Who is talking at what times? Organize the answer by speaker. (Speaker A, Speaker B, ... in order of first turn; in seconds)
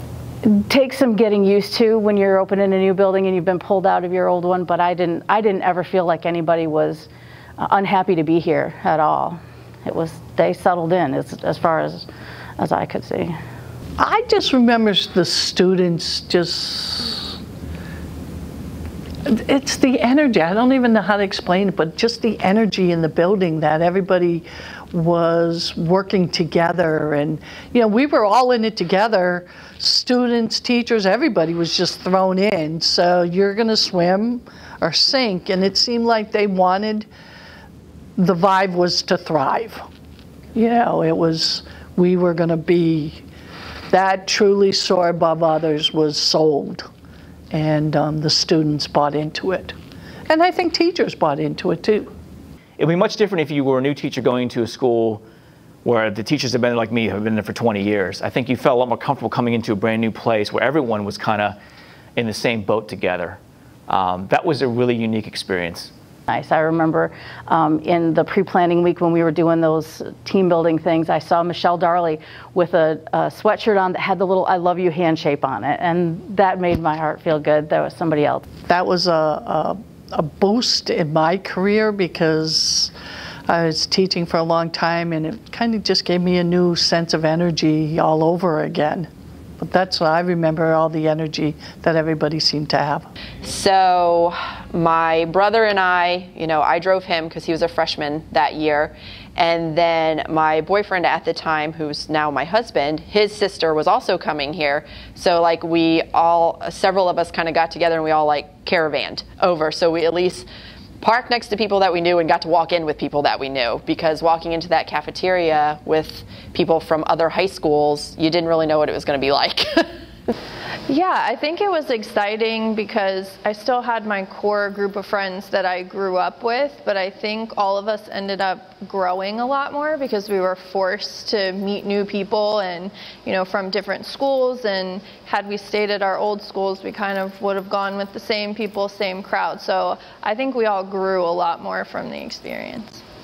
Speaker A: 0.4-12.1, 12.6-13.4, 66.3-78.5
Speaker B: 14.0-17.4, 19.3-37.1, 38.2-39.8, 40.5-43.2, 43.9-46.9, 47.5-49.8, 50.3-52.1, 78.7-82.9, 83.5-89.1, 89.6-93.1
Speaker C: 52.8-55.2, 55.8-61.6, 62.2-65.9
Speaker D: 93.4-110.5, 111.0-119.8
Speaker E: 120.9-143.0